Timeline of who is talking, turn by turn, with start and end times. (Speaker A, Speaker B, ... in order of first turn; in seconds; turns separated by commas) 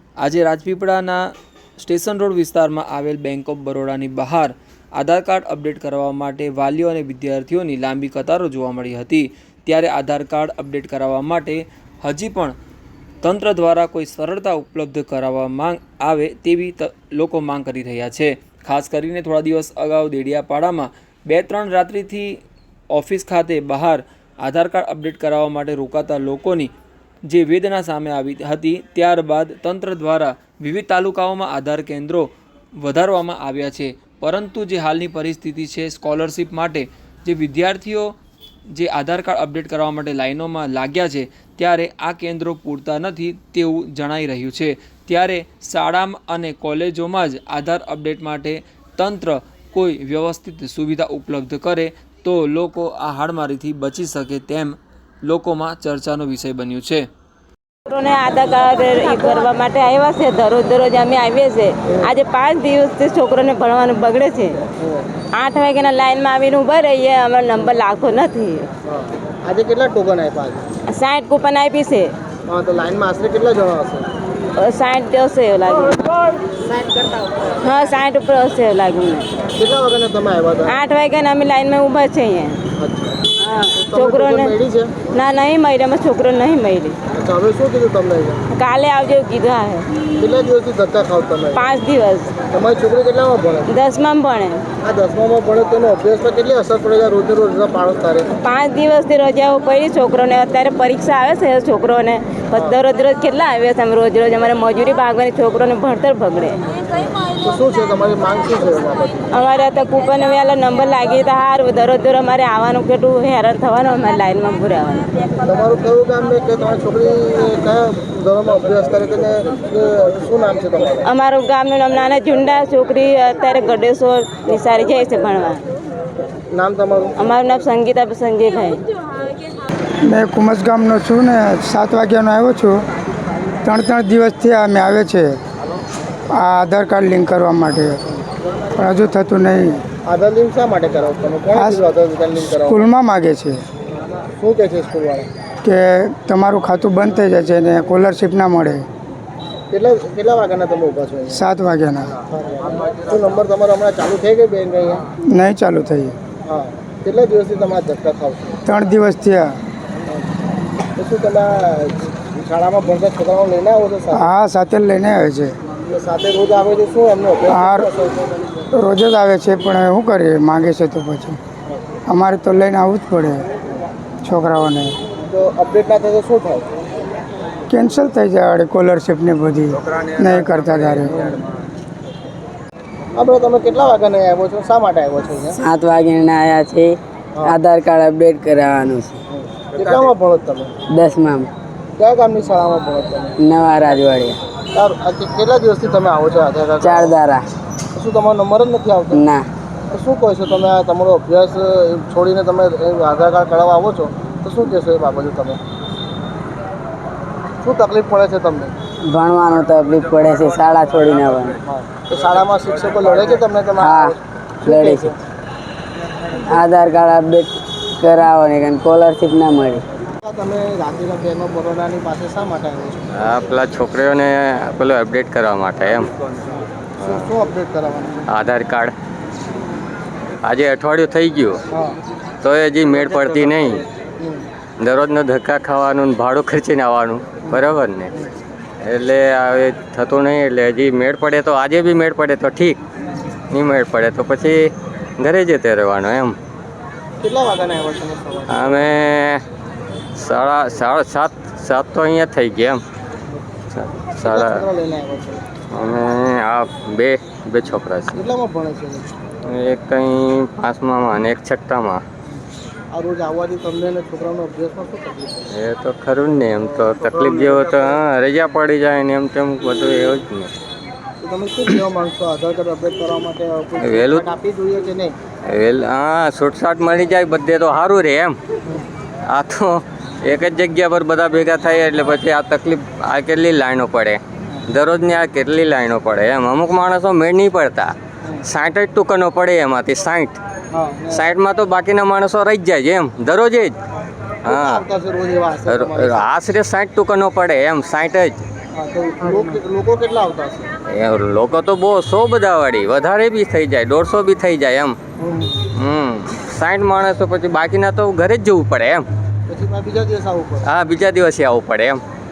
Speaker A: 0.2-1.2, Speaker A: 1.8-12.5, Speaker A: 13.2-22.4, Speaker A: 22.9-26.7, Speaker A: 27.3-38.1, Speaker A: 38.7-57.1, Speaker B: 57.9-64.6, Speaker C: 64.8-65.1, Speaker B: 65.3-68.7, Speaker C: 68.8-70.6, Speaker B: 70.9-72.1, Speaker C: 72.5-74.1, Speaker B: 74.6-76.1, Speaker B: 77.6-79.3, Speaker C: 79.5-80.8, Speaker B: 80.7-82.6, Speaker C: 82.8-83.2, Speaker B: 83.4-84.5, Speaker C: 83.7-85.0, Speaker B: 85.1-87.0, Speaker C: 87.1-88.4, Speaker B: 88.5-89.9, Speaker C: 90.2-91.6, Speaker B: 91.5-92.3, Speaker C: 92.5-93.7, Speaker B: 93.7-94.6, Speaker C: 94.8-98.3, Speaker B: 98.4-106.6, Speaker C: 107.4-109.3, Speaker B: 109.3-115.1, Speaker C: 115.4-121.0, Speaker B: 121.0-125.6, Speaker C: 126.5-127.3, Speaker B: 127.2-128.8, Speaker D: 130.0-132.8, Speaker D: 133.6-135.4, Speaker D: 136.3-138.0, Speaker D: 138.8-139.8, Speaker C: 140.0-142.9, Speaker D: 141.5-141.8, Speaker D: 142.4-143.6, Speaker C: 144.4-145.3, Speaker D: 145.6-148.9, Speaker C: 149.7-151.4, Speaker D: 151.3-152.2, Speaker C: 152.3-155.0, Speaker D: 155.3-156.1, Speaker C: 156.4-158.6, Speaker D: 158.6-159.6, Speaker C: 160.9-164.2, Speaker D: 164.1-165.6, Speaker C: 165.9-168.3, Speaker D: 167.5-167.9, Speaker D: 168.7-171.4, Speaker D: 172.1-173.4, Speaker D: 174.2-175.0, Speaker C: 175.2-176.7, Speaker D: 177.7-181.1, Speaker C: 183.2-185.6, Speaker E: 185.6-189.2, Speaker C: 189.3-190.7, Speaker E: 190.9-191.5, Speaker C: 192.0-193.3, Speaker E: 193.4-194.4, Speaker C: 194.7-197.2, Speaker E: 196.8-197.4, Speaker C: 197.9-199.2, Speaker E: 199.1-199.4, Speaker C: 199.9-205.6, Speaker C: 207.6-208.8, Speaker E: 209.1-211.6, Speaker C: 211.7-215.1, Speaker E: 213.8-215.1, Speaker E: 216.5-219.8, Speaker C: 220.2-223.1, Speaker F: 223.1-226.1, Speaker C: 226.5-228.3, Speaker F: 227.0-227.3, Speaker F: 228.3-228.9, Speaker F: 230.4-231.6, Speaker F: 232.4-233.8, Speaker F: 234.8-238.1, Speaker C: 237.5-238.3, Speaker F: 238.8-242.8, Speaker F: 243.5-244.7, Speaker F: 245.2-246.3, Speaker C: 247.2-249.0, Speaker F: 248.5-249.4, Speaker F: 250.2-252.8, Speaker F: 253.7-254.6, Speaker C: 254.2-255.4, Speaker F: 255.7-258.1, Speaker C: 258.1-259.1, Speaker F: 259.4-262.0, Speaker C: 262.9-265.5, Speaker F: 265.5-270.5, Speaker C: 266.6-268.0, Speaker C: 271.2-275.1, Speaker F: 273.8-274.2, Speaker F: 275.5-278.4, Speaker F: 279.3-290.4, Speaker C: 290.7-291.3, Speaker F: 291.1-293.7, Speaker F: 294.4-294.9, Speaker C: 294.4-296.3, Speaker F: 295.7-298.4, Speaker C: 298.7-300.7, Speaker F: 300.9-304.9, Speaker C: 305.2-305.6, Speaker F: 305.7-309.0, Speaker C: 309.5-310.7, Speaker F: 310.6-312.0